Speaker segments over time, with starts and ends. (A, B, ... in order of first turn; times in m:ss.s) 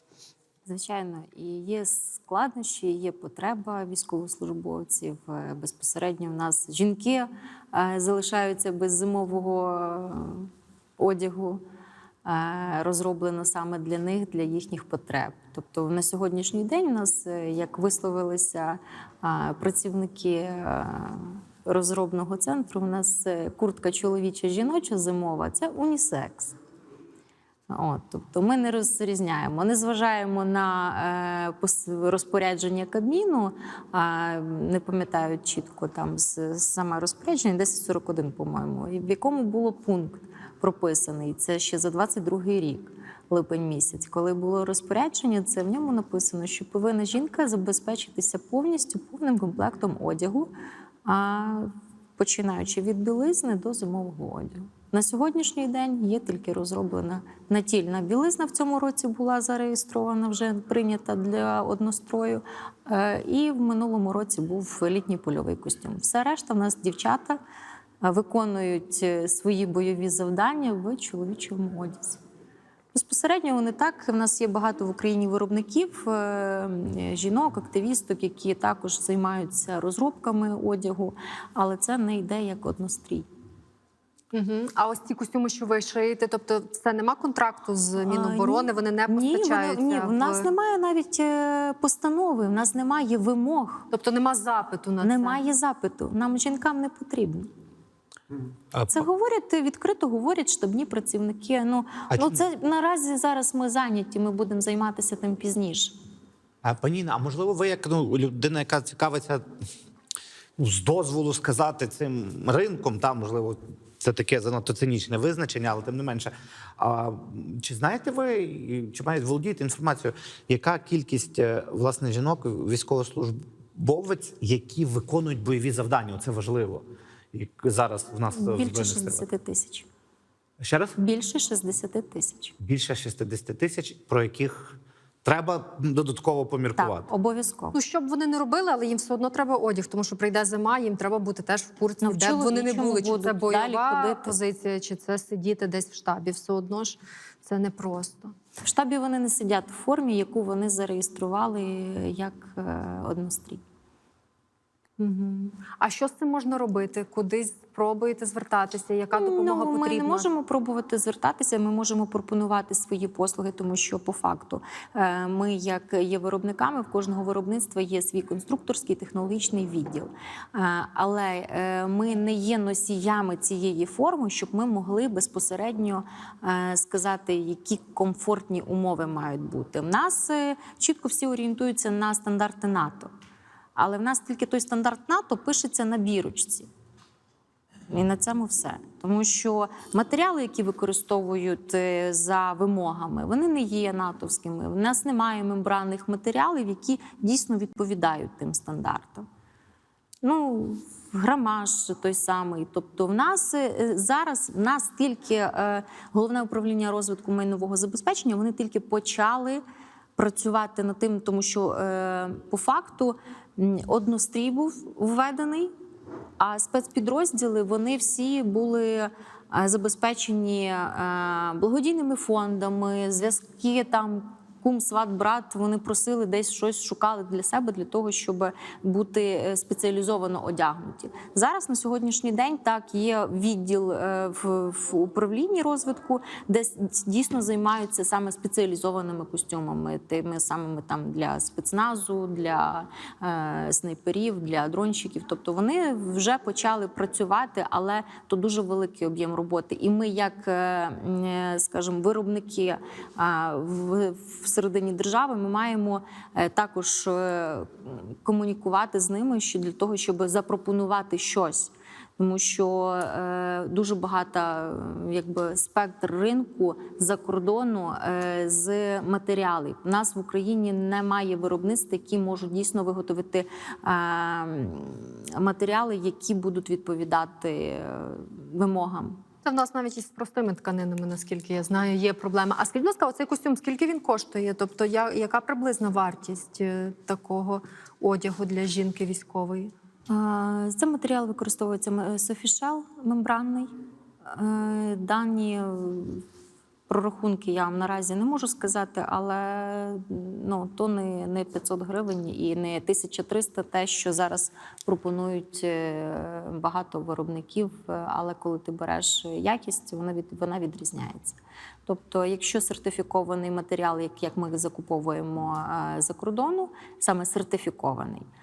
0:00.7-0:11.6 A
0:12.2-0:26.6 A
0:27.7-0:50.5 A
0:51.0-1:07.4 A
1:08.0-1:12.2 A
1:12.9-1:23.3 A
1:24.3-1:30.5 B
1:28.0-1:33.9 A
1:33.9-1:35.4 B
1:35.0-1:37.5 A
1:38.7-1:39.0 C
1:38.9-1:46.0 A
1:42.1-1:42.4 C
1:46.6-1:49.4 C
1:50.6-2:09.2 C
2:08.3-2:09.9 A
2:10.6-2:11.0 C
2:11.0-2:12.5 A
2:12.6-2:17.1 C
2:16.8-2:17.8 A
2:17.7-2:28.3 B
2:22.0-2:24.4 A
2:28.6-2:33.6 A
2:35.0-2:40.3 B
2:39.1-3:03.1 A
3:03.8-3:06.7 A
3:07.9-3:19.3 A
3:20.2-3:29.6 A
3:30.2-3:35.7 A
3:36.4-4:39.2 A
4:39.4-4:49.7 B
4:50.1-4:53.7 A
4:54.3-4:56.2 A
4:56.9-5:18.2 A